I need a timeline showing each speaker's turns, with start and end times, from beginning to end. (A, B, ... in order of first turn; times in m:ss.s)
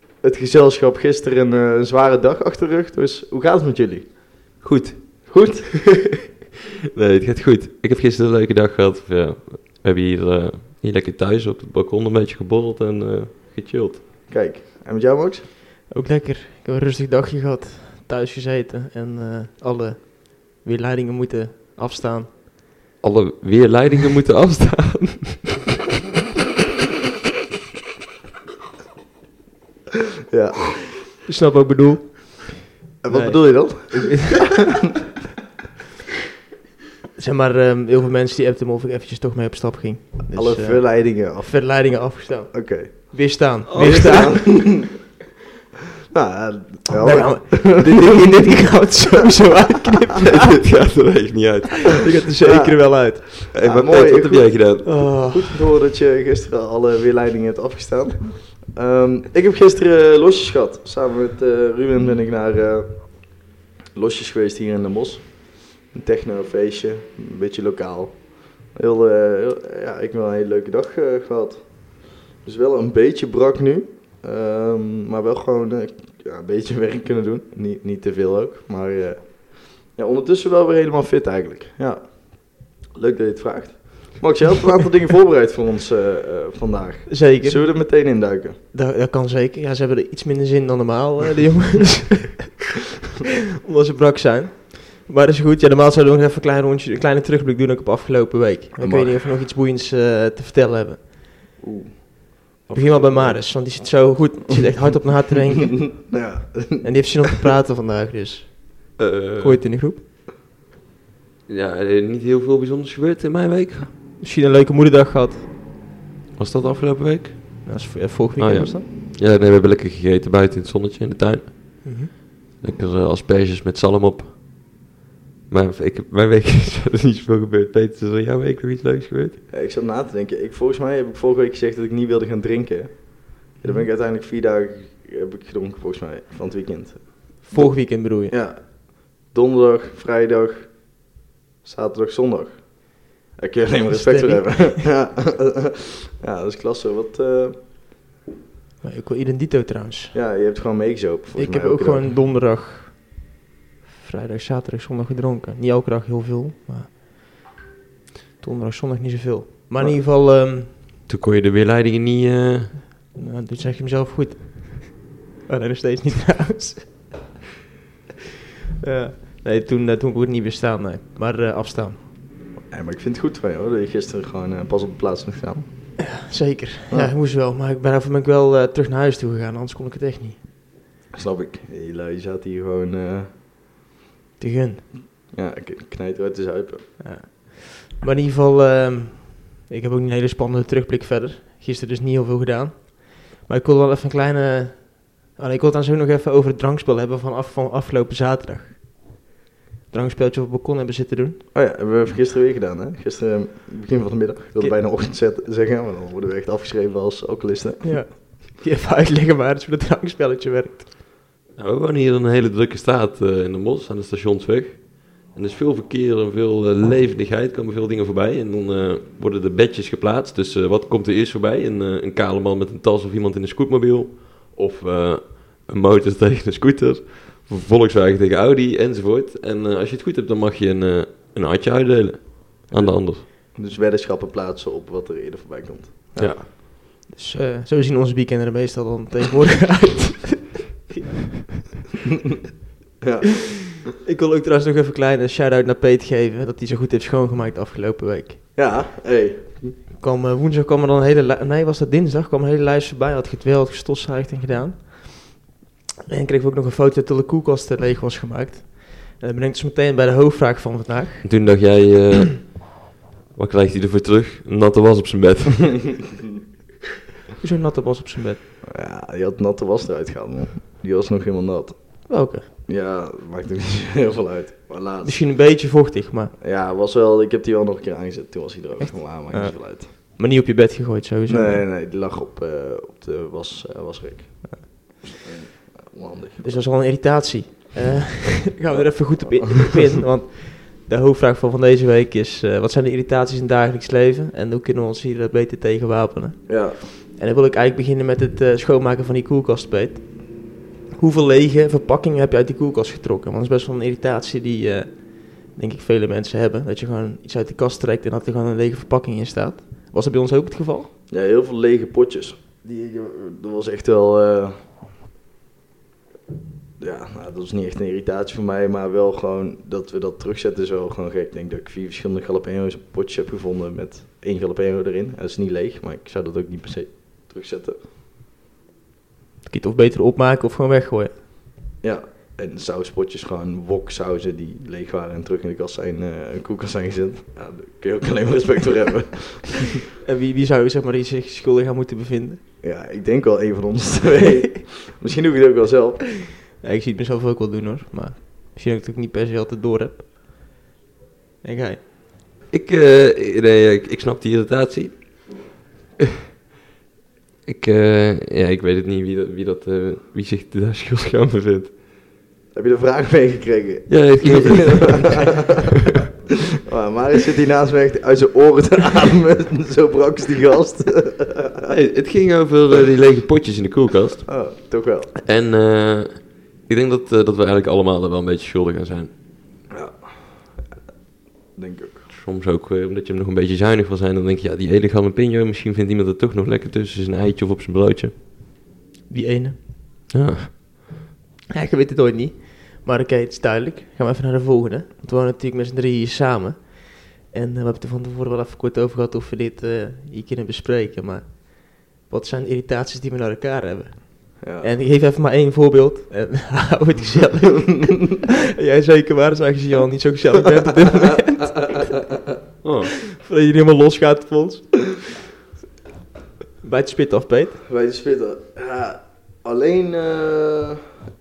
0:00.2-0:04.2 A
0:04.6-0:05.5 B
0:05.3-0:05.8 A
0:06.9-0:14.0 B
0:14.3-0:15.4 A
0:15.9-0:22.4 C
0:23.0-0:25.6 B
0:30.3-0:30.9 A
0:31.2-0:34.7 C
0:33.0-0:34.6 A
0:37.2-0:44.7 C
0:40.3-0:44.9 A
0:43.7-0:44.7 B
0:46.1-0:48.9 A
0:47.0-0:50.5 C
0:50.2-0:52.1 B
0:51.9-0:53.4 C
0:52.4-1:28.6 A
0:53.5-0:55.2 B
0:54.8-0:55.6 C
1:27.1-1:27.8 C
1:28.7-1:32.7 C
1:33.6-1:41.2 C
1:38.8-1:39.2 A
1:41.6-1:44.0 A
1:42.7-1:46.0 C
1:46.0-1:47.2 A
1:46.8-1:50.0 C
1:49.0-1:49.7 B
1:51.5-1:53.9 B
1:54.2-1:55.5 C
1:56.4-2:01.9 B
1:57.7-1:58.8 C
2:01.8-2:02.1 C
2:02.6-2:04.7 B
2:05.5-2:09.4 B
2:09.5-2:27.6 A
2:13.6-2:13.9 C
2:17.4-2:18.3 C
2:23.9-2:24.9 C
2:28.8-2:30.1 C
2:30.1-2:32.1 A
2:31.4-2:33.2 C
2:34.0-2:37.5 C
2:38.4-2:40.8 C
2:41.1-2:42.8 B
2:43.1-2:47.3 C
2:48.8-2:52.0 C
2:52.6-2:56.0 A
2:56.0-3:00.4 C
2:56.9-2:57.1 A
3:01.1-3:03.3 A
3:04.4-3:04.9 C
3:05.3-3:07.0 A
3:07.0-3:19.1 C
3:19.9-3:21.4 C
3:21.5-3:28.1 A
3:27.8-3:30.9 C
3:31.6-3:53.2 B
3:52.7-3:56.4 A
3:56.2-3:56.5 B
3:57.1-4:01.4 C
4:03.0-4:03.7 A
4:04.0-4:08.5 C
4:08.5-4:09.8 A
4:10.0-4:15.5 C
4:16.1-4:21.3 C
4:21.2-4:26.0 B
4:27.4-4:28.4 C
4:28.7-4:35.3 A
4:32.1-4:32.5 C
4:35.0-4:36.4 C
4:36.4-4:39.9 A
4:38.8-4:41.6 C
4:41.3-4:46.6 A
4:44.4-4:45.0 C
4:46.4-5:10.9 C
4:48.7-4:49.7 A
4:56.5-4:56.8 A
5:11.1-5:14.6 A
5:16.8-5:27.8 A
5:29.5-5:31.2 C
5:31.8-5:39.8 A
5:40.0-5:42.4 C
5:42.6-5:46.2 A
5:46.5-5:50.1 C
5:51.4-5:51.8 C
5:52.5-5:55.4 B
5:57.5-6:01.7 B
6:02.5-6:05.3 A
6:03.9-6:05.3 B
6:06.7-6:11.7 A
6:11.7-6:14.5 B
6:14.3-6:15.1 A
6:15.2-6:19.1 B
6:19.7-6:20.7 A
6:21.5-6:22.1 A
6:22.1-6:28.1 B
6:29.1-6:29.6 C
6:30.1-6:30.6 B
6:31.5-6:52.0 C
6:44.4-6:44.7 A
6:52.6-6:52.9 B
6:53.1-6:55.1 C
6:56.6-6:57.6 C
6:57.7-7:00.8 A